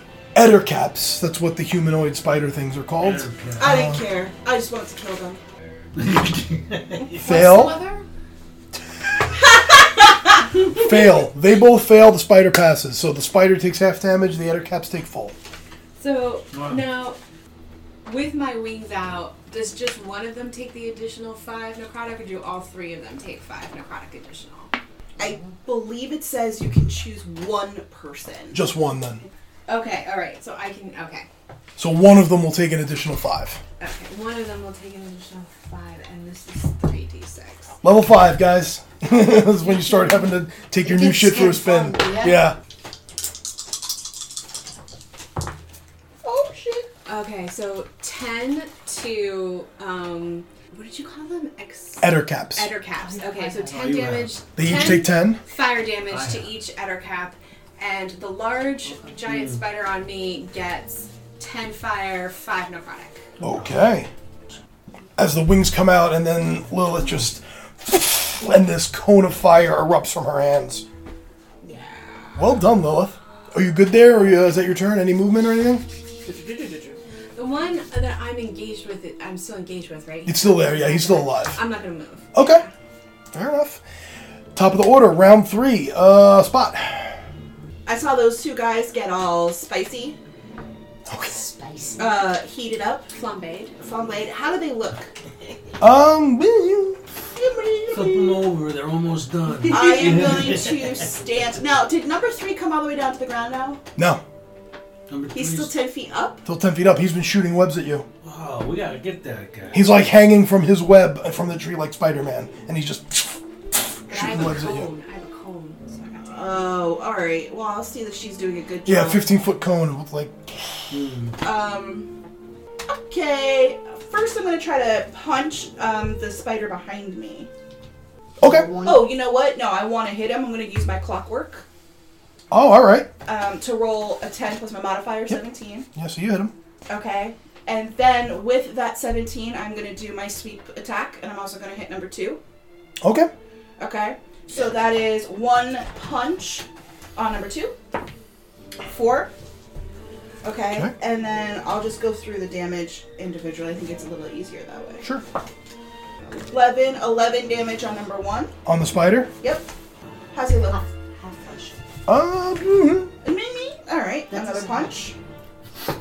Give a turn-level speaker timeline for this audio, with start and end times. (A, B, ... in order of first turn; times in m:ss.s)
0:00.4-0:04.0 A
0:03.0-0:03.9 B
0:03.6-0:05.4 C
0:06.0-0:07.3 B
0:07.2-0:07.8 A
0:07.3-0:08.0 D
0:10.4-0:10.9 C
0:10.8-0:15.4 A
0:16.0-0:17.2 D
0:16.5-0:16.9 B
0:18.0-0:24.7 D
0:25.2-0:28.6 C
0:28.5-0:29.2 A
0:29.7-0:31.3 D
0:31.8-0:33.6 A
0:33.8-0:37.7 D
0:37.8-0:42.6 A
0:39.3-0:40.4 D
0:40.8-0:42.4 E
0:46.2-0:46.9 C
0:47.1-1:03.3 D
0:52.0-0:52.7 A
0:53.0-0:53.8 E
0:53.7-0:54.9 B
0:54.6-0:55.4 A
0:56.1-0:56.5 B
0:59.3-0:59.6 B
1:03.4-1:03.7 B
1:03.4-1:04.1 A
1:05.2-1:10.8 A
1:11.6-1:12.3 D
1:12.4-1:15.8 A
1:16.3-1:22.7 D
1:20.2-1:21.6 A
1:22.3-1:22.6 A
1:23.3-1:23.8 A
1:24.6-1:27.2 A
1:27.9-1:30.2 C
1:31.1-1:31.4 A
1:31.3-1:32.2 E
1:32.0-1:33.1 C
1:33.1-1:33.8 D
1:33.8-1:35.1 C
1:35.8-1:37.0 A
1:37.4-1:38.4 C
1:37.9-1:41.1 B
1:39.7-1:43.8 C
1:44.0-1:44.2 A
1:45.1-1:45.8 B
1:45.3-1:46.4 C
1:46.5-1:48.1 A
1:48.2-1:49.9 B
1:49.7-1:54.9 A
1:54.1-1:56.3 D
1:56.2-1:59.2 C
1:58.9-2:01.0 A
2:00.9-2:01.4 B
2:01.4-2:02.1 C
2:02.9-2:07.5 C
2:08.4-2:08.7 A
2:08.4-2:09.2 E
2:08.8-2:11.6 C
2:12.5-2:13.1 A
2:13.2-2:15.9 C
2:15.9-2:16.5 A
2:16.9-2:22.4 C
2:23.0-2:23.3 A
2:23.8-2:27.8 C
2:28.9-2:29.3 C
2:30.4-2:35.0 C
2:36.2-2:38.5 C
2:38.6-2:39.3 A
2:39.4-2:39.7 C
2:40.3-2:40.8 C
2:40.7-2:41.8 E
2:42.1-2:43.1 A
2:43.2-2:45.2 C
2:44.3-2:45.1 E